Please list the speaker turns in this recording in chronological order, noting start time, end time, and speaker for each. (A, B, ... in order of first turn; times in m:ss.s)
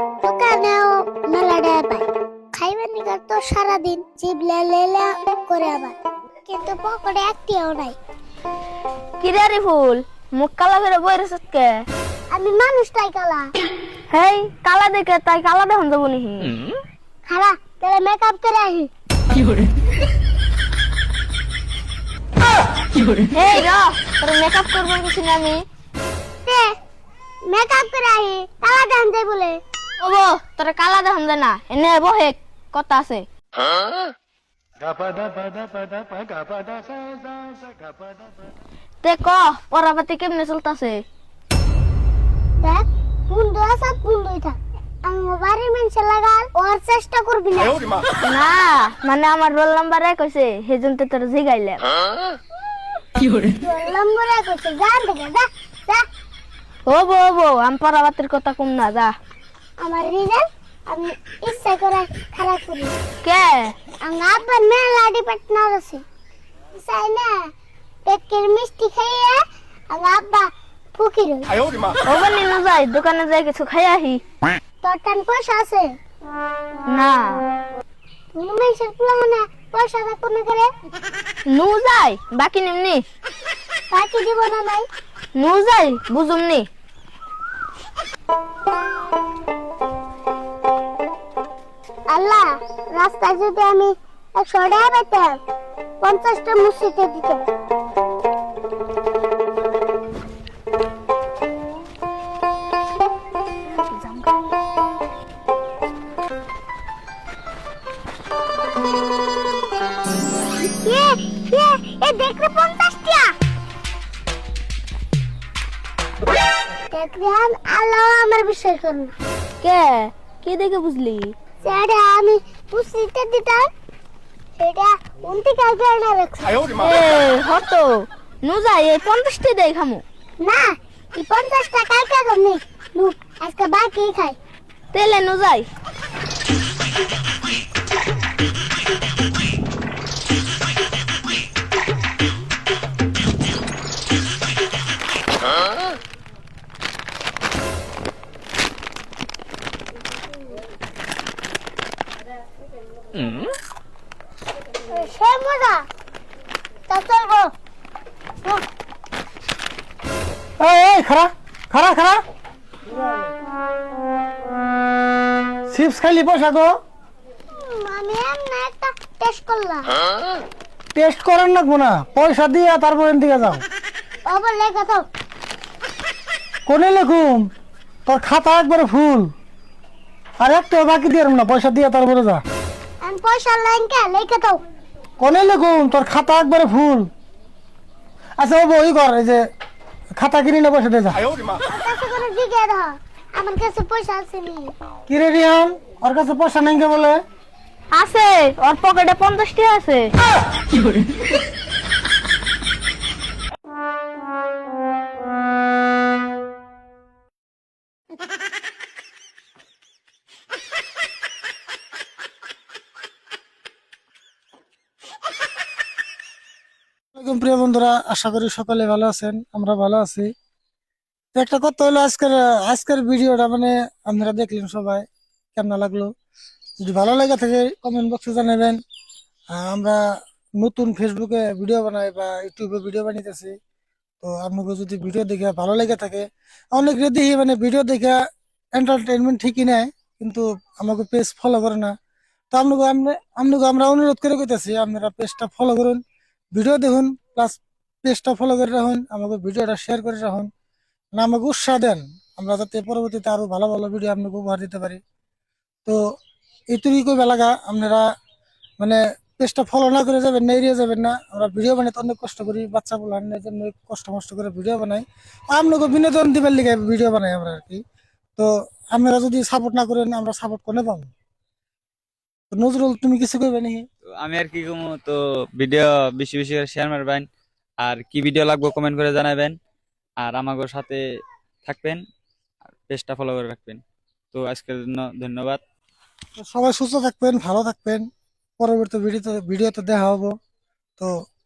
0:00.2-0:08.0 A
0:09.2-0:11.8 B
0:12.3-0:13.5 A
0:14.1-0:16.6 B
0:17.2-0:18.9 A
0:23.3-0:25.6 B
0:26.4-0:26.7 A
0:27.5-0:29.6 A
0:30.0-0:33.3 B
0:39.0-0:41.0 B
0:42.6-0:48.0 A
0:48.2-0:51.8 B
0:53.4-0:56.0 A
0:56.9-0:59.1 B
0:59.8-1:02.9 A
1:03.2-1:03.7 B
1:04.0-1:06.0 A
1:06.7-1:07.3 A
1:08.0-1:11.5 A
1:12.0-1:14.2 B
1:14.8-1:15.9 A
1:16.9-1:17.4 B
1:18.3-1:20.7 A
1:21.5-1:23.0 B
1:23.9-1:24.9 A
1:25.4-1:26.6 B
1:32.1-1:35.4 A
1:36.0-1:37.4 A
1:43.8-1:44.3 B
1:50.8-1:53.3 A
1:56.9-1:59.1 A
1:59.6-2:01.3 B
2:01.6-2:03.7 A
2:04.6-2:06.8 A
2:06.8-2:10.0 B
2:10.4-2:14.4 A
2:14.9-2:15.7 B
2:34.9-2:35.8 A
2:36.9-2:37.5 A
2:40.6-2:42.2 C
2:45.7-2:46.7 C
2:47.5-2:49.9 A
2:50.9-2:53.6 C
2:54.2-2:55.0 A
2:56.7-2:57.5 C
2:58.1-2:59.3 C
3:00.4-3:02.4 C
3:03.0-3:04.6 A
3:05.2-3:07.1 C
3:08.4-3:09.4 C
3:10.2-3:11.2 C
3:11.6-3:14.7 A
3:15.1-3:17.2 C
3:17.9-3:20.1 B
3:37.1-3:40.3 C
3:41.3-3:46.1 C
3:46.8-3:48.8 C
3:49.5-3:50.0 C
3:50.6-3:53.5 C
3:54.2-3:58.2 C
3:58.7-4:01.9 C
4:02.5-4:06.0 C
4:06.5-4:10.5 C
4:11.1-4:15.0 C
4:16.7-4:18.1 C
4:18.8-4:27.8 C
4:28.4-4:31.1 C
4:32.5-4:33.8 C
4:34.2-4:37.2 D
4:37.8-4:39.6 D
4:40.2-4:41.0 D
4:41.6-4:42.0 D
4:42.8-4:43.8 D
4:44.3-4:45.6 D
4:46.4-4:48.0 C
4:48.6-4:50.3 C